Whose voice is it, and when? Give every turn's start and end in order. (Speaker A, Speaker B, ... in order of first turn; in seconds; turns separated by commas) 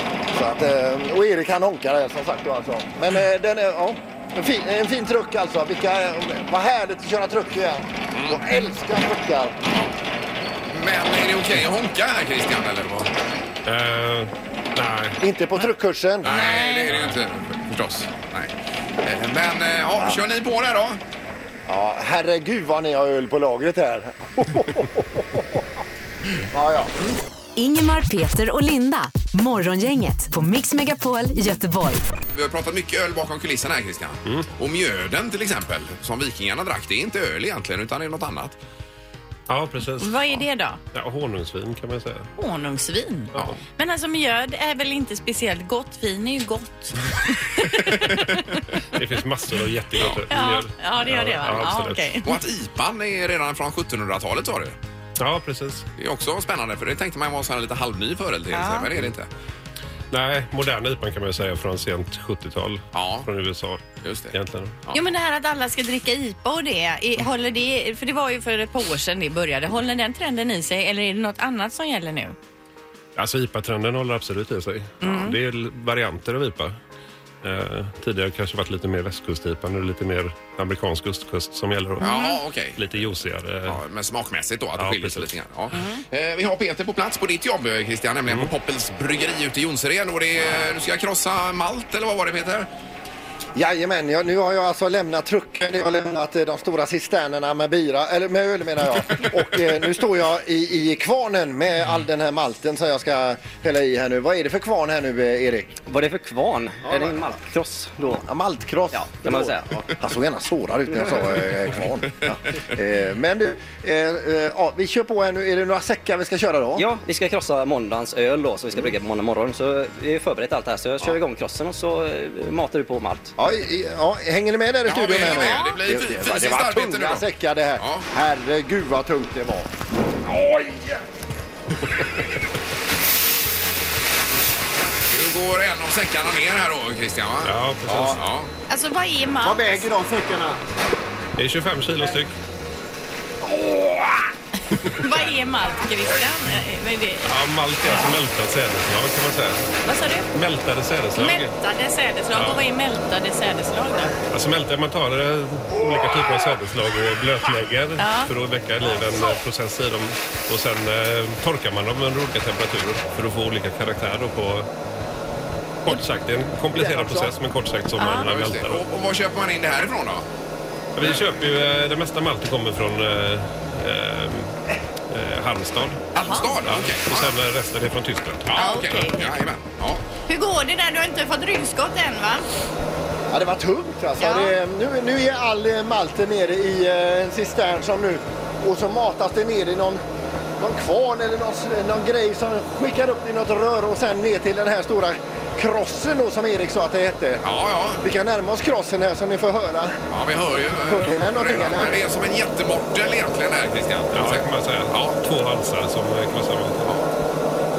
Speaker A: 0.3-9.6, Speaker B: 8.1-8.4, Speaker B: 10.7-13.1, Speaker C: 13.7-15.2, Speaker A: 15.2-16.4, Speaker B: 16.2-18.5, Speaker D: 16.2-16.9, Speaker C: 16.9-17.1, Speaker B: 19.0-21.0, Speaker A: 21.7-25.6, Speaker A: 26.5-26.9, Speaker E: 27.6-32.0, Speaker B: 32.3-38.6, Speaker C: 39.5-40.4, Speaker D: 40.0-40.8, Speaker C: 40.9-42.3, Speaker D: 42.4-48.6, Speaker C: 48.9-52.1, Speaker D: 50.3-52.4, Speaker B: 52.2-54.8, Speaker C: 55.2-55.9, Speaker B: 56.0-59.3, Speaker D: 58.5-58.9, Speaker C: 60.1-64.8, Speaker B: 62.9-63.3, Speaker B: 64.0-64.3, Speaker D: 64.9-72.3, Speaker C: 73.2-76.8, Speaker D: 75.0-75.4, Speaker C: 77.4-83.8, Speaker D: 82.0-82.4, Speaker B: 82.0-82.8, Speaker B: 83.7-92.7, Speaker C: 84.8-85.3, Speaker D: 85.7-86.0, Speaker A: 93.5-105.8, Speaker F: 105.9-108.2, Speaker A: 106.9-107.3, Speaker A: 108.0-116.9, Speaker F: 108.9-109.8, Speaker F: 116.8-123.3, Speaker A: 123.4-129.7, Speaker B: 124.9-127.2, Speaker D: 125.3-125.8, Speaker B: 127.8-128.1, Speaker A: 130.3-130.9, Speaker B: 135.1-138.5, Speaker C: 137.4-138.2, Speaker D: 138.7-139.9, Speaker A: 139.4-140.6, Speaker C: 141.4-142.3, Speaker A: 143.4-144.2, Speaker D: 144.9-147.2, Speaker C: 147.2-149.6, Speaker D: 149.8-150.3, Speaker C: 150.3-151.5, Speaker D: 151.1-154.2, Speaker C: 152.3-152.6, Speaker C: 154.3-164.7, Speaker D: 158.0-158.3, Speaker C: 165.8-168.8, Speaker D: 168.0-168.3, Speaker B: 168.2-170.2, Speaker C: 171.0-174.6, Speaker C: 175.1-176.1, Speaker B: 176.1-177.3, Speaker D: 176.2-176.5, Speaker C: 176.6-178.6, Speaker B: 178.5-180.0, Speaker D: 178.6-179.2, Speaker D: 180.3-182.5, Speaker A: 183.3-190.0, Speaker D: 184.2-184.6, Speaker A: 190.6-197.4, Speaker B: 197.4-198.1, Speaker A: 198.0-199.9, Speaker B: 200.1-205.2, Speaker A: 200.8-202.0, Speaker C: 204.1-207.0